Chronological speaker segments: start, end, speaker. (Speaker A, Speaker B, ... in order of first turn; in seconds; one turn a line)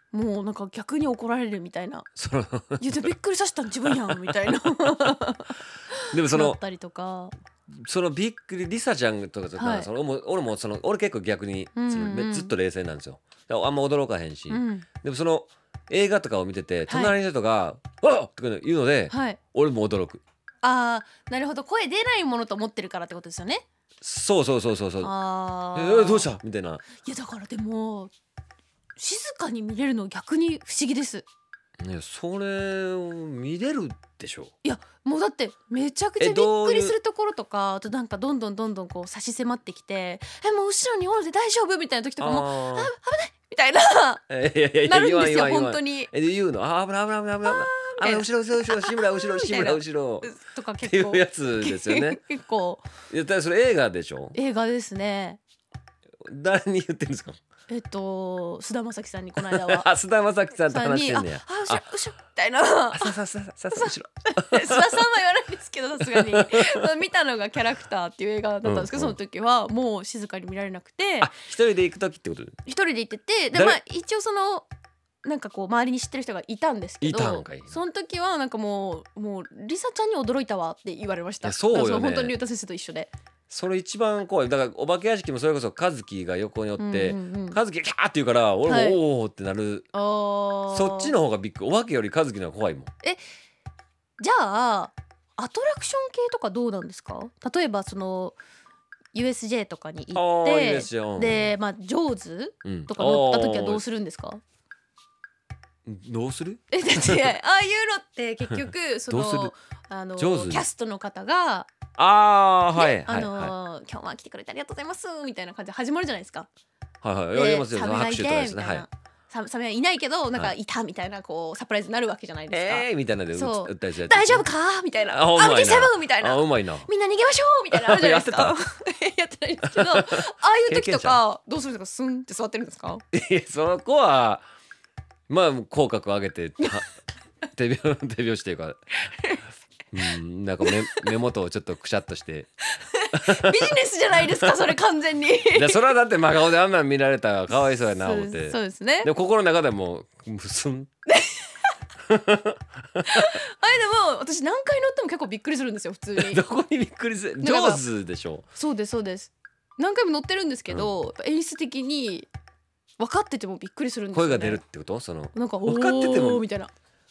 Speaker A: 0.1-2.1
Speaker B: 2.2-3.1
Speaker A: 2.8-7.3
Speaker B: 3.9-5.0
Speaker B: 6.1-6.6
Speaker B: 7.7-20.2
Speaker A: 9.6-9.9
Speaker A: 11.8-12.5
Speaker A: 14.5-14.9
Speaker A: 16.9-17.2
Speaker A: 19.1-19.4
Speaker A: 20.6-23.6
Speaker B: 24.0-25.1
Speaker A: 25.0-26.3
Speaker B: 25.8-26.9
Speaker A: 27.0-28.1
Speaker A: 29.0-31.2
Speaker B: 31.8-34.5
Speaker A: 34.6-44.2
Speaker B: 36.2-37.0
Speaker B: 42.2-42.9
Speaker B: 44.3-52.2
Speaker A: 44.9-46.1
Speaker A: 47.5-52.9
Speaker B: 53.1-54.4
Speaker A: 54.3-55.4
Speaker B: 56.2-57.4
Speaker A: 57.7-59.9
Speaker B: 59.4-61.8
Speaker A: 60.6-63.2
Speaker B: 62.9-65.0
Speaker A: 63.7-71.3
Speaker B: 66.1-66.8
Speaker B: 68.6-69.2
Speaker B: 71.2-72.6
Speaker A: 72.7-74.7
Speaker B: 73.5-73.8
Speaker A: 75.2-83.1
Speaker B: 77.0-77.8
Speaker B: 81.4-82.4
Speaker B: 83.5-89.9
Speaker A: 86.8-87.6
Speaker A: 88.7-89.0
Speaker A: 89.9-91.2
Speaker B: 90.7-92.9
Speaker A: 94.2-98.4
Speaker A: 99.1-104.4
Speaker B: 100.1-101.5
Speaker B: 102.6-103.8
Speaker B: 105.9-107.3
Speaker A: 106.7-111.7
Speaker B: 109.1-109.5
Speaker B: 110.2-110.6
Speaker B: 112.0-113.5
Speaker A: 112.7-116.5
Speaker B: 117.0-118.8
Speaker A: 117.3-133.1
Speaker B: 122.5-124.5
Speaker B: 125.0-126.9
Speaker B: 127.7-128.6
Speaker B: 129.7-131.2
Speaker B: 133.1-134.4
Speaker B: 135.3-136.9
Speaker B: 137.5-138.8
Speaker B: 139.9-142.5
Speaker A: 140.6-141.1
Speaker A: 142.8-145.9
Speaker B: 143.1-143.7
Speaker B: 145.5-150.9
Speaker A: 147.7-149.1
Speaker A: 151.1-151.5
Speaker B: 152.1-153.0
Speaker A: 153.1-156.4
Speaker B: 156.2-158.4
Speaker A: 157.4-157.8
Speaker A: 158.6-162.3
Speaker A: 163.0-164.6
Speaker B: 164.1-166.4
Speaker A: 165.3-166.7